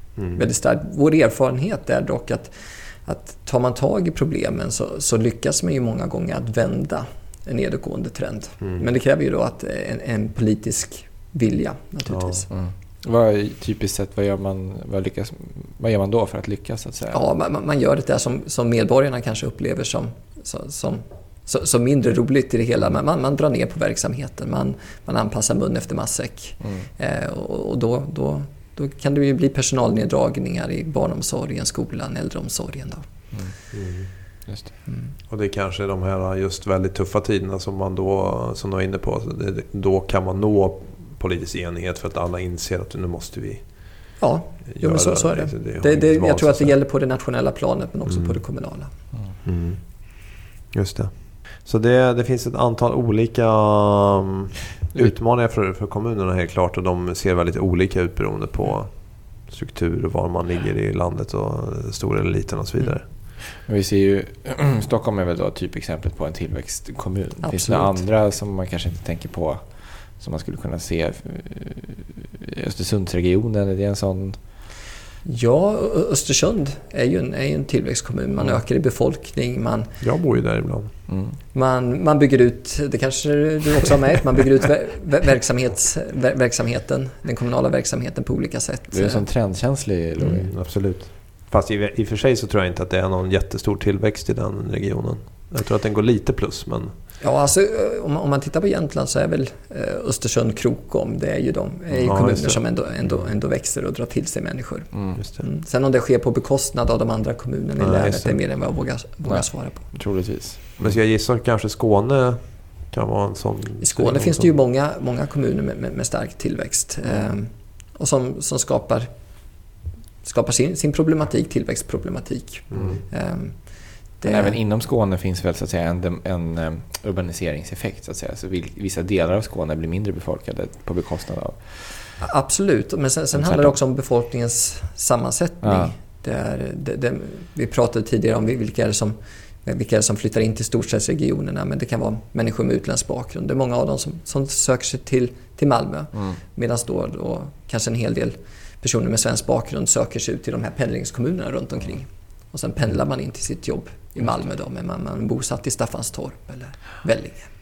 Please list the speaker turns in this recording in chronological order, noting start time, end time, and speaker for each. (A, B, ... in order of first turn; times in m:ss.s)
0:00.2-0:00.4 A
0:00.3-0:12.5 B
0:08.6-0:08.8 A
0:12.1-0:12.3 A
0:12.5-0:17.2 C
0:17.1-0:33.1 B
0:26.6-0:26.9 C
0:33.7-0:34.1 A
0:34.5-0:34.7 C
0:34.9-0:35.1 B
0:35.3-0:46.8 A
0:44.2-0:48.9 B
0:48.1-0:48.3 A
0:49.4-1:03.1 A
1:03.5-1:14.6 C
1:07.4-1:08.0 B
1:15.2-1:20.0 B
1:20.0-1:20.9 A
1:21.1-1:21.4 C
1:21.5-1:29.2 B
1:28.9-1:30.5 C
1:30.2-1:36.9 A
1:37.2-1:49.9 B
1:42.0-1:43.1 A
1:44.9-1:45.2 C
1:45.2-1:45.4 A
1:47.8-1:48.4 A
1:49.2-1:50.9 C
1:50.8-1:54.5 A
1:53.8-1:59.1 B
2:00.2-2:03.7 B
2:02.7-2:03.0 A
2:04.2-2:04.6 B
2:04.2-2:12.1 C
2:12.2-2:37.5 B
2:13.3-2:13.7 C
2:15.6-2:15.9 C